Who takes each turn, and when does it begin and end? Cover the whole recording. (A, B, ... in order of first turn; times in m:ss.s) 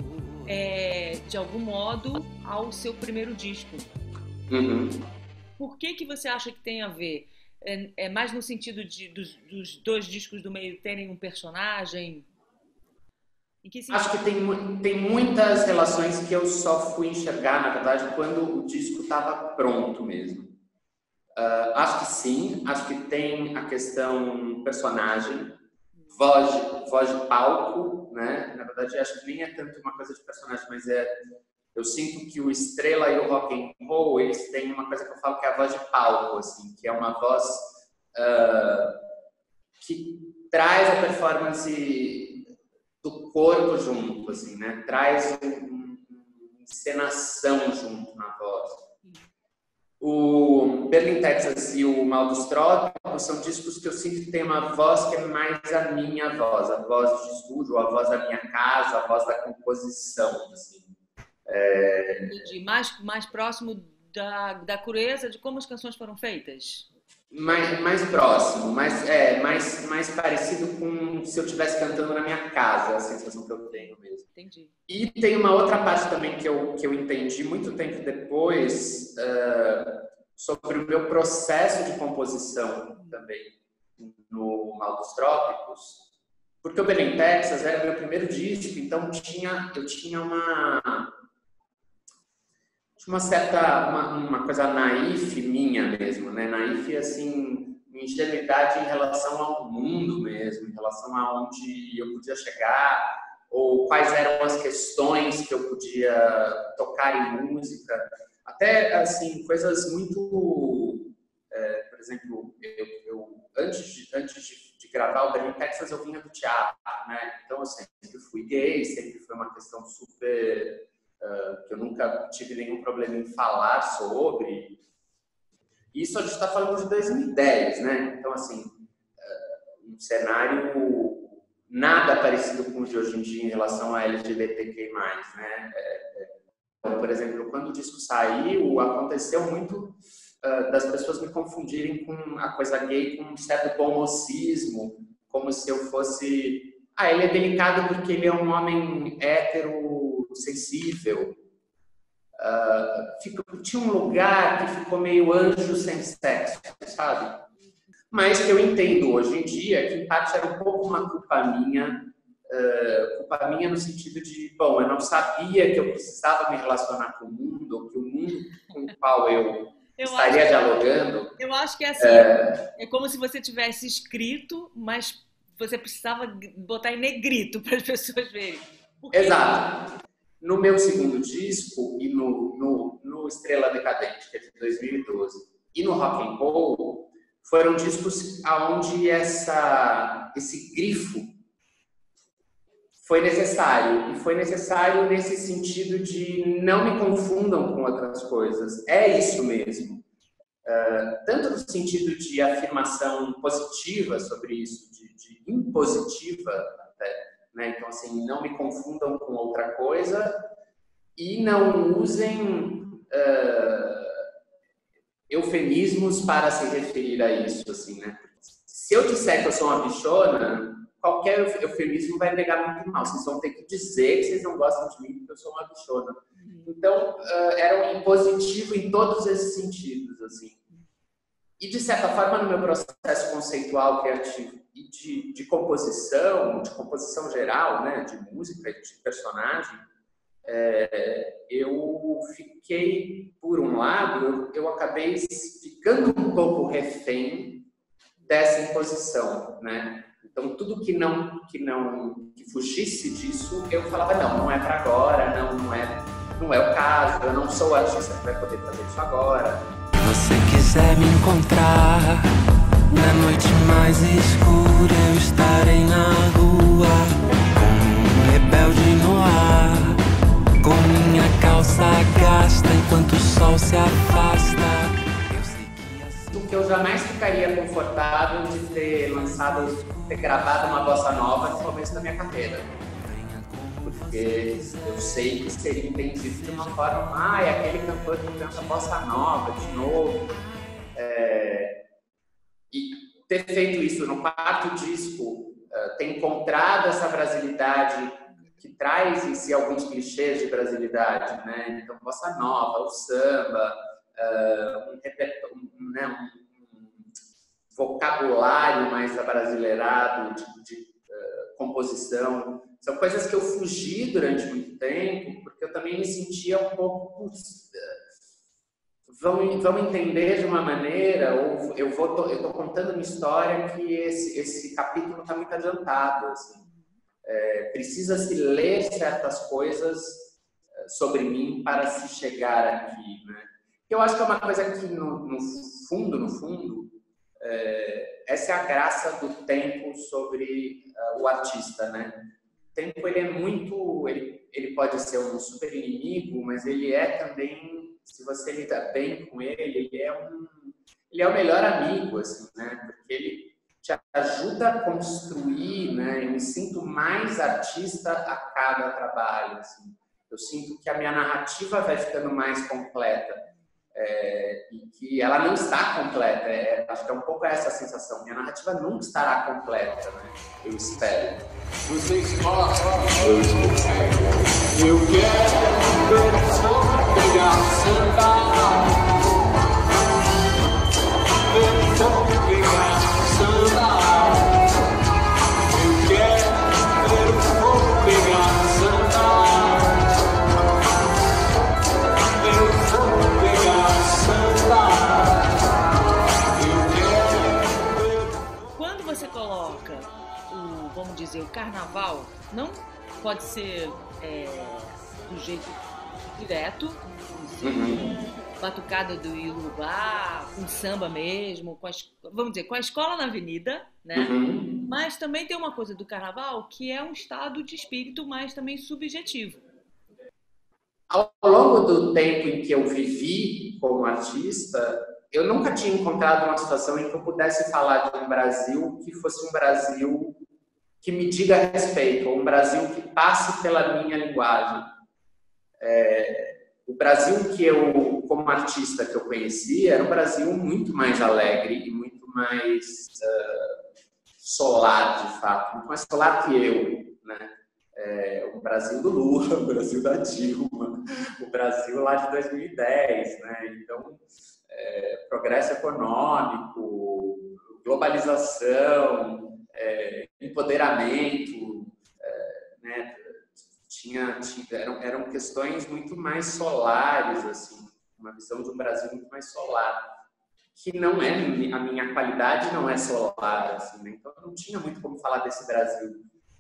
0:00.5-0:03.9 A
0:04.5-0:05.0 B
0:05.6-0:12.3 A
0:13.6-0:14.1 A
0:13.9-0:20.6 B
0:21.4-0:25.6 B
0:26.1-0:31.1 B
0:31.7-0:39.0 B
0:39.8-0:42.5 B
0:43.0-0:48.8 B
0:50.0-1:00.9 B
1:01.5-1:02.5 B
1:02.1-1:06.9 A
1:07.3-1:14.3 B
1:14.4-1:14.7 A
1:14.9-1:26.0 B
1:23.0-1:23.2 A
1:26.6-1:31.1 B
1:33.0-2:04.8 B
2:05.9-2:31.4 B
2:32.4-2:37.4 B
2:38.1-2:51.3 B
2:50.0-2:50.5 A
2:51.4-2:59.6 A
2:52.0-2:52.6 B
2:59.1-2:59.9 B
3:00.4-3:11.4 B
3:13.0-3:20.0 B
3:20.6-3:30.4 B
3:31.2-3:34.3 B
3:35.3-3:50.6 B
3:46.4-3:46.7 A
3:51.6-3:59.8 B
4:00.4-4:07.7 B
4:08.2-4:19.7 B
4:20.0-4:22.4 C
4:22.9-4:30.0 C
4:30.6-4:36.5 C
4:36.3-4:42.7 B
4:39.0-4:41.9 C
4:42.8-4:48.5 C
4:43.8-4:50.3 B
4:50.9-4:51.8 B
4:52.7-5:07.1 B
5:07.7-5:18.0 B
5:19.1-5:26.6 B
5:27.2-6:11.4 B
6:11.8-6:19.0 C
6:21.4-6:24.6 C
6:25.7-6:30.0 C
6:32.2-6:35.6 C
6:36.5-6:38.2 C
6:38.8-6:45.8 A
6:46.4-6:59.6 A
6:47.6-6:48.1 B
6:54.2-6:54.8 B
7:01.1-7:10.4 B
7:11.0-7:14.9 B
7:15.8-7:23.8 B
7:24.4-7:50.1 B
7:50.8-7:56.2 B